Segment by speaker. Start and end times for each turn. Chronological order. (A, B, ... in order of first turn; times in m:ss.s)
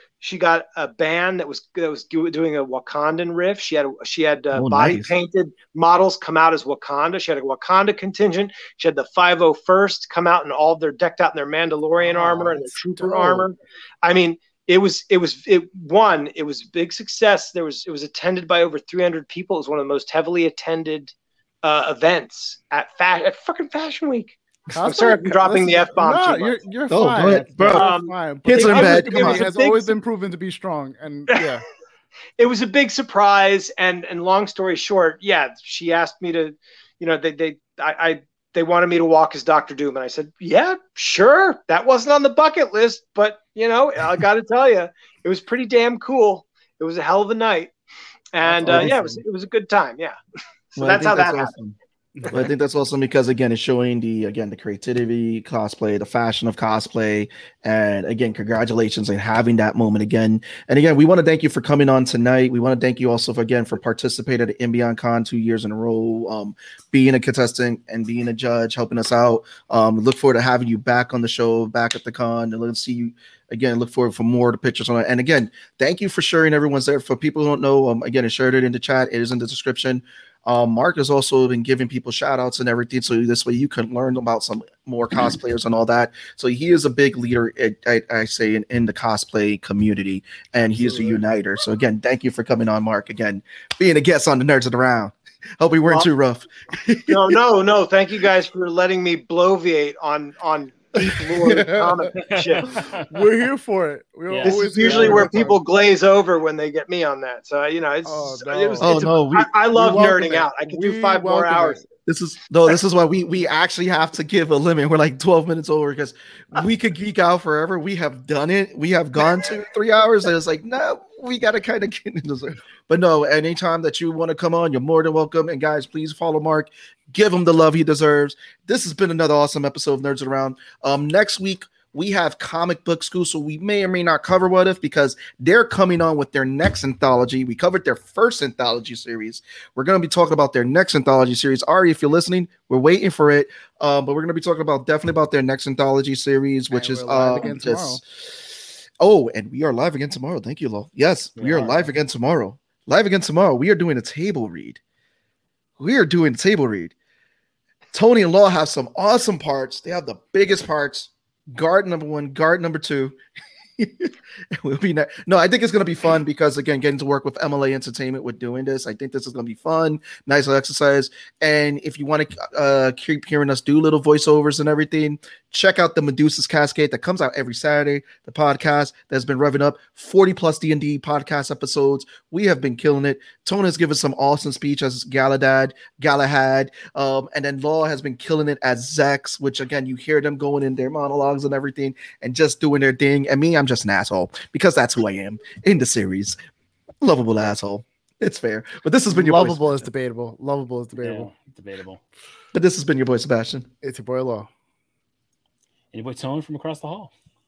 0:00.2-0:26.6 A
0:04.5-0:05.1 B
0:12.0-0:13.5 C
0:24.7-0:31.6 C
0:26.9-0:27.9 B
0:27.7-0:30.0 A
0:28.4-0:29.5 B
0:32.4-0:47.7 A
0:48.3-0:50.2 A
0:48.4-0:49.2 C
0:48.6-0:49.0 B
0:50.7-0:51.5 A
0:50.8-0:51.8 B
0:52.3-1:37.4 B
1:30.8-1:31.2 C
1:37.1-1:42.8 A
1:41.4-1:42.0 C
1:42.2-1:43.0 D
1:42.8-1:45.6 C
1:44.3-1:45.1 D
1:44.4-1:51.8 A
1:48.0-1:49.0 C
1:48.8-1:49.5 B
1:49.7-1:51.8 C
1:52.0-2:28.0 B
2:26.7-2:28.0 C
2:29.0-2:34.8 B
2:31.4-2:31.8 D
2:35.8-2:36.9 B
2:37.9-2:43.1 B
2:43.8-3:16.4 B
3:17.0-3:19.7 B
3:19.1-3:21.3 C
3:21.0-3:22.0 D
3:22.5-3:23.7 B
3:23.8-3:24.5 C
3:25.9-3:27.1 D